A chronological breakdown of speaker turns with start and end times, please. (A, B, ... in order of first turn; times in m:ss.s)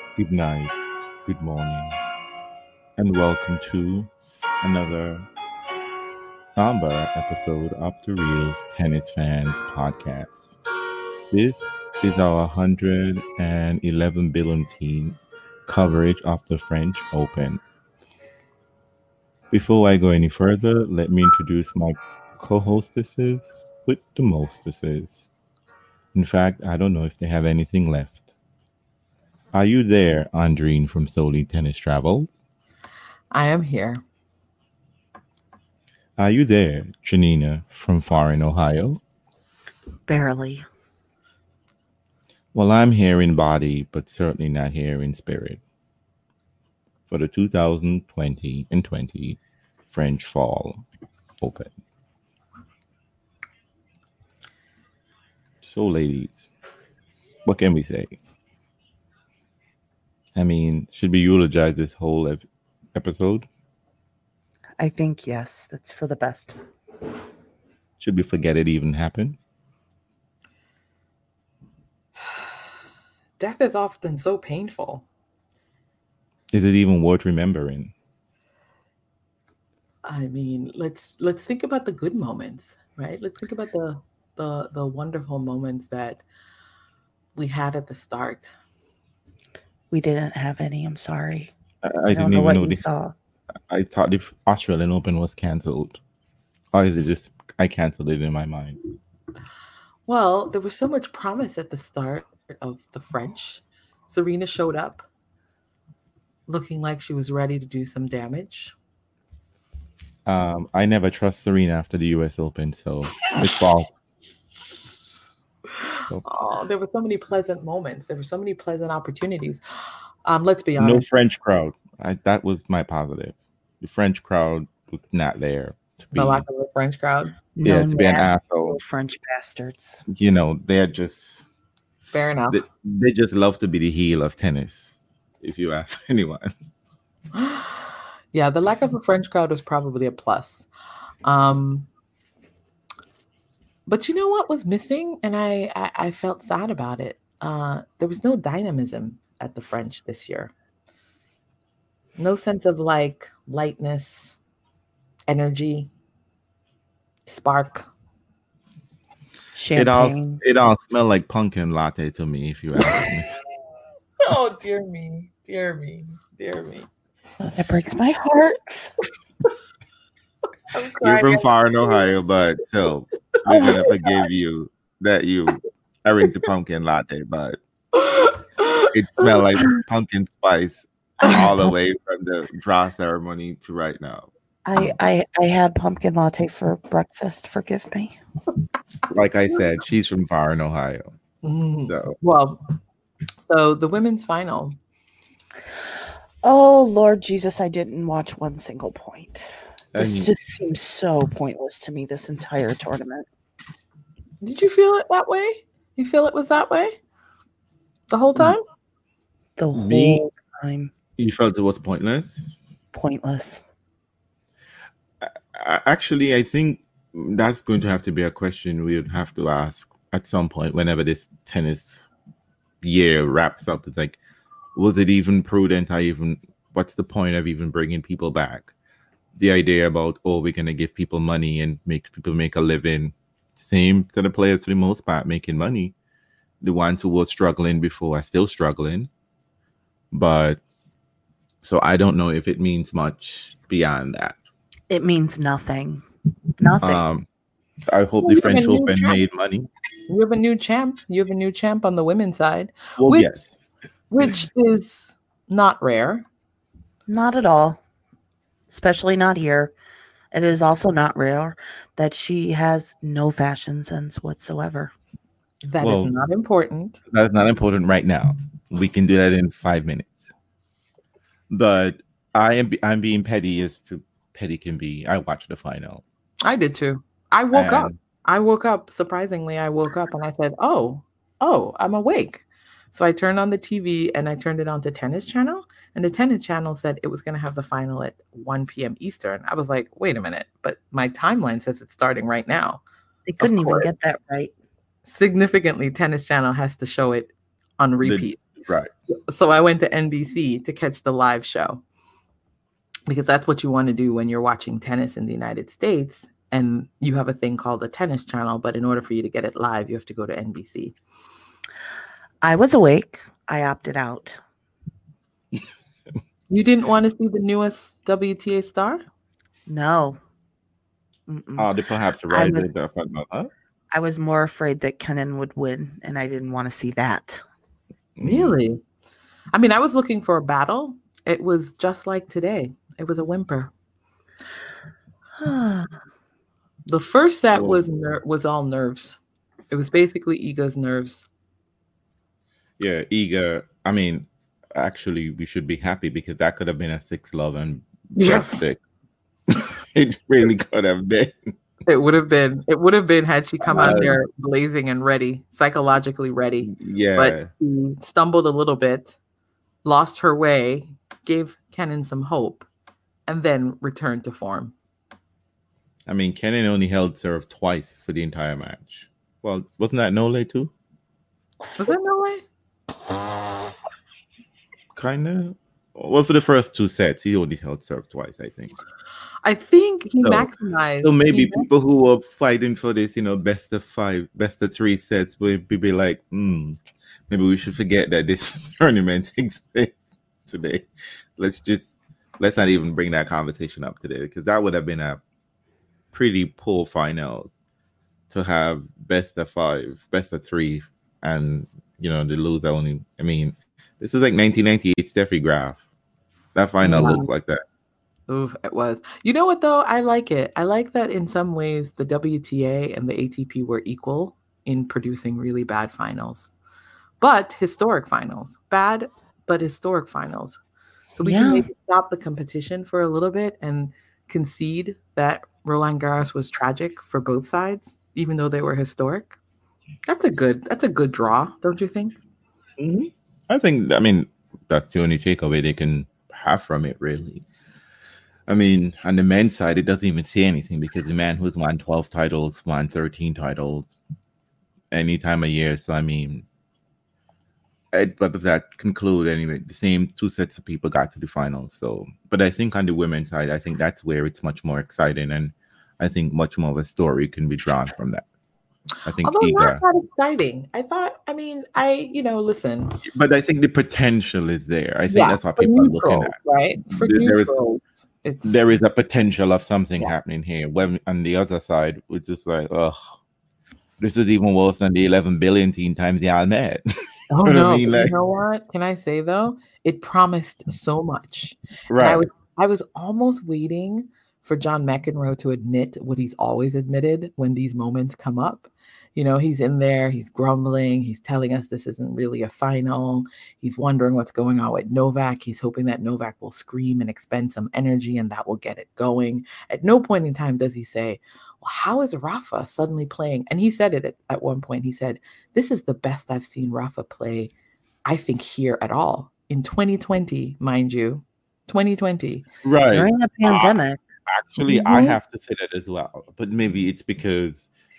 0:00.2-0:00.7 A
0:01.2-0:02.0 A
0:03.0-0:04.1 A
0:04.6-0:05.3 A
0:06.4-0:10.4 A
0:11.3-0:17.6 A
0:19.5-0:25.3 A
0:26.1-0:28.2 A
0:29.5-0:32.3 A
0:33.3-0:34.0 B
0:36.2-0:39.0 A
0:40.1-0:40.6 C
0:42.5-0:45.6 A
0:47.1-0:50.8 A
0:51.4-0:51.7 A
0:55.6-0:56.5 A
0:57.4-0:58.2 A
1:00.4-1:03.5 A
1:04.8-1:06.6 C
1:08.0-1:09.4 A
1:12.2-1:12.6 B
1:13.4-1:15.1 B
1:16.5-1:17.9 A
1:20.0-1:26.2 B
1:27.3-1:28.5 B
1:29.9-1:31.5 C
1:31.8-1:32.8 A
1:32.1-1:33.1 C
1:33.7-1:36.0 A
1:36.7-1:38.8 A
1:40.0-1:45.0 B
1:46.5-1:48.7 B
1:50.2-1:53.9 A
1:56.2-1:59.6 B
2:00.2-2:01.0 B
2:00.8-2:06.4 A
2:06.1-2:07.3 B
2:07.6-2:10.0 C
2:07.6-2:08.8 A
2:10.1-2:11.4 A
2:12.1-2:12.6 B
2:12.5-2:16.5 A
2:17.3-2:20.7 B
2:21.2-2:21.9 B
2:23.8-2:30.5 B
2:32.2-2:34.4 B
2:35.3-2:35.9 B
2:37.2-2:37.9 B
2:39.5-2:40.4 C
2:39.7-2:43.3 A
2:44.2-2:46.9 B
2:47.4-2:48.9 C
2:50.7-2:52.0 B
2:51.0-2:57.6 A
2:57.9-2:59.7 B
2:58.9-3:04.3 A
3:04.6-3:08.2 C
3:09.1-3:11.1 A
3:11.4-3:12.6 B
3:11.8-3:12.2 A
3:13.4-3:14.8 B
3:16.4-3:23.2 C
3:19.9-3:20.3 A
3:24.4-3:26.9 B
3:28.1-3:28.6 B
3:29.6-3:30.9 C
3:29.7-3:30.2 A
3:31.2-3:32.5 A
3:32.9-3:33.6 C
3:35.2-3:42.0 A
3:42.8-3:44.2 A
3:44.8-3:48.7 A
3:49.4-3:56.0 A
3:56.6-3:59.1 A
4:00.1-4:00.6 A
4:01.6-4:04.4 A
4:04.9-4:06.0 C
4:06.6-4:07.0 C
4:06.8-4:07.3 A
4:07.9-4:09.7 A
4:08.2-4:09.2 B
4:10.1-4:13.3 B
4:13.0-4:13.5 A
4:14.1-4:16.2 B
4:17.1-4:17.8 C
4:18.7-4:19.7 C
4:20.3-4:24.9 C
4:25.6-4:27.0 B
4:25.8-4:26.1 A
4:27.1-4:30.2 A
4:31.5-4:36.0 A
4:36.4-4:52.8 B
4:37.5-4:38.0 A
4:53.2-4:54.5 C
4:53.4-4:53.9 B
4:55.0-4:58.4 B
4:58.0-4:58.9 A
4:59.3-5:01.8 B
5:03.1-5:11.0 B
5:12.4-5:14.4 C
5:16.5-5:19.0 B
5:19.7-5:20.2 C
5:21.3-5:21.7 C
5:21.6-5:23.5 A
5:22.3-5:22.7 C
5:23.9-5:27.4 C
5:28.2-5:28.6 A
5:28.2-5:28.8 B
5:29.5-5:33.7 B
5:35.4-5:35.9 C
5:36.9-5:39.2 B
5:37.5-5:37.8 A
5:39.7-5:41.3 B
5:42.8-5:48.8 A
5:48.2-5:48.6 B
5:49.5-5:51.3 A
5:51.8-5:59.2 B
5:53.6-5:54.2 A
5:56.6-5:57.5 A
5:59.8-6:02.7 B
6:03.3-6:04.7 B
6:06.1-6:10.7 A
6:11.8-6:12.4 B
6:14.9-6:18.7 A
6:19.4-6:21.7 B
6:20.2-6:20.5 A
6:21.0-6:26.8 A
6:27.3-6:30.8 A
6:31.4-6:35.2 A
6:36.1-6:37.6 A
6:38.3-6:45.8 A
6:46.5-6:47.6 A
6:46.8-6:47.3 B
6:48.3-6:56.5 B
6:57.2-7:00.6 B
7:01.1-7:09.4 B
7:01.2-7:01.7 C
7:10.1-7:12.2 B
7:12.8-7:17.4 A
7:18.5-7:23.9 A
7:24.9-7:26.4 A
7:27.9-7:38.2 A
7:39.0-7:39.8 A
7:39.2-7:43.0 B
7:43.0-7:46.4 A
7:45.1-7:48.7 B
7:46.9-7:47.5 A
7:48.4-7:53.0 A
7:54.0-7:56.8 A
7:57.3-8:27.5 B
7:57.4-7:58.1 A
8:01.9-8:02.2 A
8:28.0-8:32.4 B
8:32.6-8:37.7 A
8:32.9-8:34.0 C
8:34.6-8:35.2 B